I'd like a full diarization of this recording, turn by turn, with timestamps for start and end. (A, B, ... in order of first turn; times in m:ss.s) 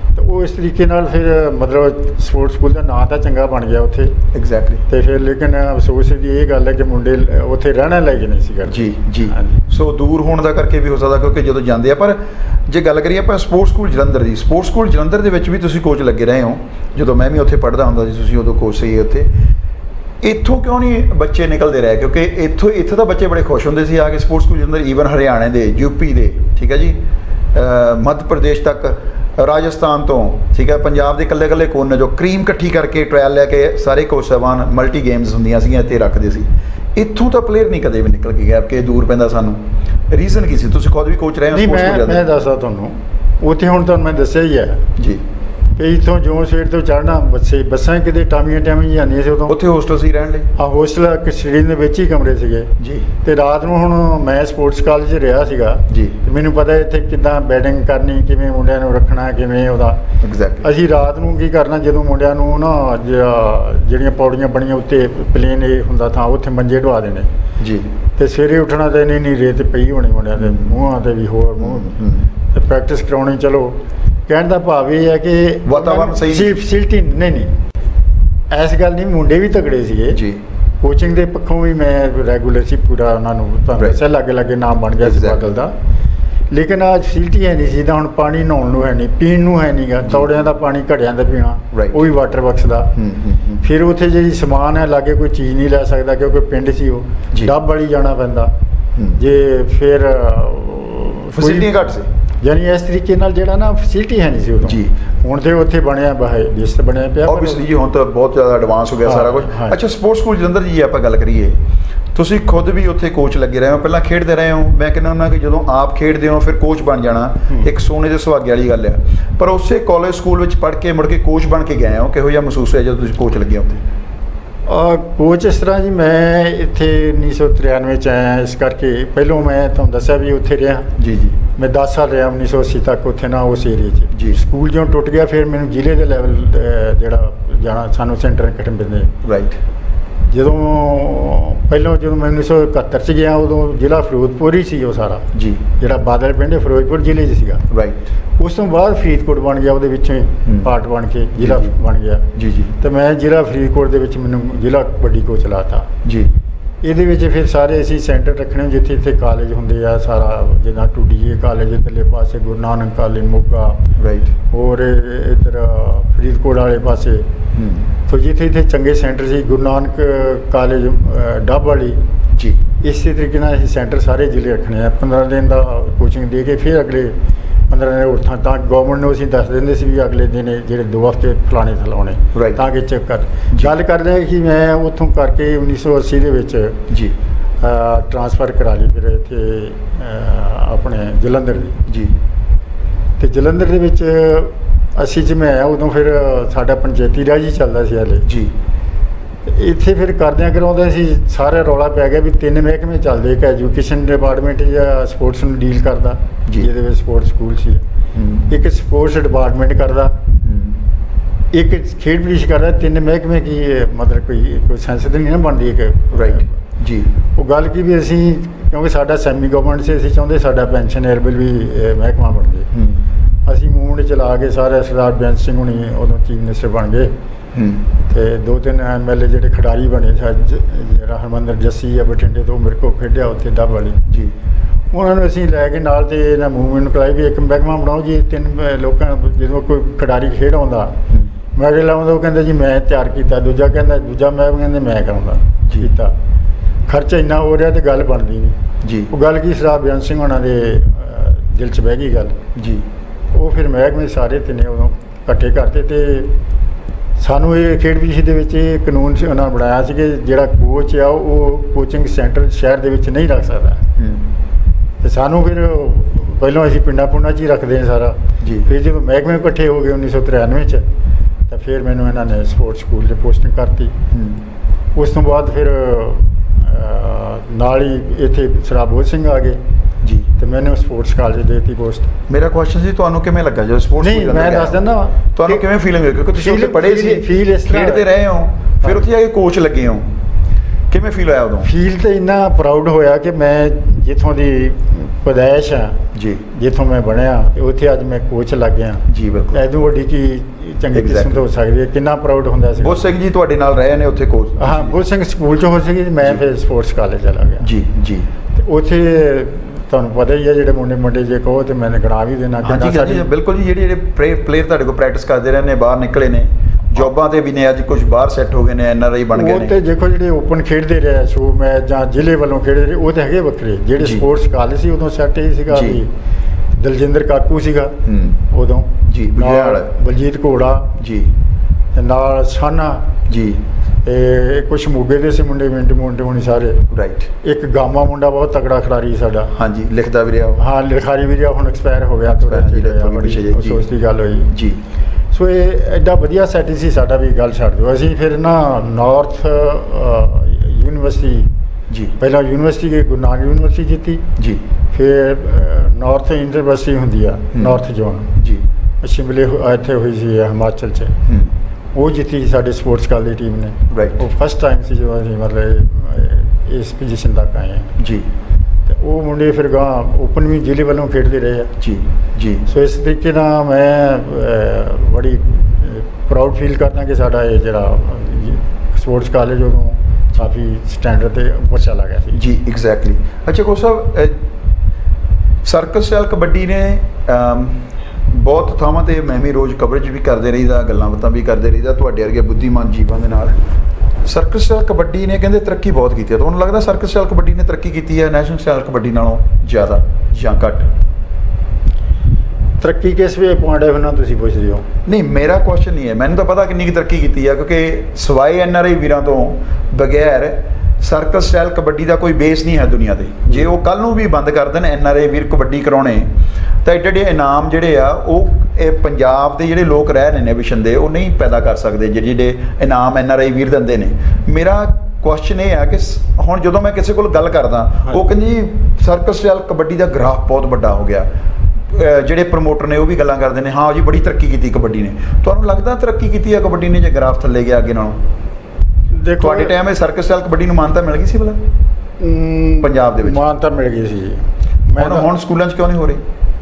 0:00.1-0:04.2 A
0:04.3-0:04.8 B
0:04.9-0:09.6 A
0:08.7-0:19.4 B
0:20.2-0:27.0 B
0:27.5-0:42.3 B
0:41.5-0:44.9 A
0:45.0-0:45.2 B
0:45.8-0:49.6 A
0:49.5-0:50.5 B
0:50.6-1:00.0 A
0:52.8-0:53.1 B
0:55.9-0:56.2 B
1:00.2-1:00.7 B
1:00.6-1:07.3 A
1:07.6-1:07.9 B
1:08.2-1:12.0 A
1:10.4-1:10.8 B
1:11.6-1:12.3 B
1:12.5-1:17.6 A
1:15.6-1:16.6 B
1:18.5-1:20.2 A
1:20.1-1:20.4 B
1:20.8-1:25.8 A
1:25.0-1:25.4 B
1:26.5-1:32.9 A
1:31.7-1:32.0 B
1:33.0-1:33.6 B
1:33.6-1:38.5 A
1:39.2-1:41.7 A
1:41.4-1:42.1 B
1:42.4-1:47.7 A
1:44.6-1:44.9 B
1:47.2-1:51.6 B
1:49.0-1:49.8 A
1:52.2-2:03.8 B
2:04.7-2:10.9 A
2:11.0-2:11.4 B
2:11.5-2:19.2 A
2:14.1-2:14.4 B
2:19.2-2:19.6 B
2:20.3-2:27.6 A
2:25.3-2:25.6 B
2:27.7-2:28.1 B
2:28.4-2:35.9 A
2:30.5-2:30.7 B
2:31.4-2:31.7 B
2:32.4-2:32.8 B
2:36.0-2:36.3 B
2:36.8-2:43.8 A
2:44.0-2:44.4 B
2:44.5-2:47.3 A
2:47.6-2:47.9 B
2:48.1-2:52.0 A
2:52.4-2:52.6 B
2:52.8-2:57.2 A
2:57.7-3:06.8 A
3:02.3-3:02.6 B
3:06.9-3:07.2 B
3:07.6-3:11.9 A
3:11.9-3:12.1 B
3:13.2-3:18.3 A
3:18.2-3:18.5 B
3:19.4-3:27.8 A
3:28.1-3:28.5 B
3:28.5-3:30.2 A
3:30.4-3:30.8 B
3:31.5-3:36.5 A
3:36.1-3:37.1 B
3:37.3-3:42.7 A
3:42.7-3:43.0 B
3:43.4-3:47.1 A
3:47.5-3:47.9 B
3:48.0-3:54.1 A
3:54.1-3:54.3 B
3:54.9-4:01.0 A
4:01.5-4:06.2 A
4:05.7-4:05.9 B
4:06.9-4:08.6 A
4:08.8-4:09.1 B
4:09.1-4:12.4 A
4:12.6-4:12.9 B
4:13.3-4:16.3 A
4:17.2-4:23.9 A
4:24.0-4:24.2 B
4:25.0-4:30.9 A
4:28.4-4:28.7 B
4:31.5-4:34.0 A
4:34.1-4:34.4 B
4:35.0-4:39.6 A
4:40.0-4:40.3 B
4:40.4-4:42.1 A
4:42.3-4:44.8 B
4:44.0-4:45.7 A
4:45.4-4:50.1 B
4:46.3-4:48.1 A
4:50.9-4:51.7 B
4:51.6-5:03.1 A
4:56.1-4:56.4 B
4:59.1-4:59.6 B
5:00.9-5:01.4 B
5:02.8-5:05.0 B
5:04.6-5:07.7 A
5:07.6-5:08.3 B
5:08.5-5:13.3 A
5:12.6-5:19.8 B
5:19.3-5:26.1 A
5:24.0-5:24.3 B
5:25.7-5:26.0 B
5:26.8-5:28.0 A
5:28.0-5:28.4 B
5:28.5-5:31.0 A
5:29.1-5:29.9 B
5:31.0-5:31.3 B
5:31.9-5:33.1 A
5:33.3-5:33.6 B
5:34.0-5:36.9 A
5:36.9-5:37.3 B
5:37.4-5:39.5 A
5:39.5-5:40.6 B
5:40.6-5:44.5 A
5:42.4-5:43.9 B
5:44.5-5:44.8 B
5:45.3-5:51.5 A
5:52.2-5:54.3 A
5:54.4-5:54.6 B
5:54.9-5:58.4 A
5:57.5-5:57.8 B
5:58.4-5:58.7 B
5:59.0-6:01.2 A
6:01.3-6:01.5 B
6:01.9-6:08.0 A
6:03.9-6:04.2 B
6:08.0-6:08.3 B
6:08.9-6:11.8 A
6:11.8-6:12.7 B
6:12.7-6:22.4 A
6:22.3-6:24.4 B
6:25.6-6:33.6 B
6:34.2-6:40.9 B
6:42.8-6:44.9 A
6:45.1-6:56.3 B
6:56.8-7:11.3 B
7:11.9-7:18.2 B
7:19.1-7:19.8 A
7:19.4-7:21.6 B
7:22.2-7:25.3 A
7:22.8-7:23.4 B
7:24.9-7:26.2 B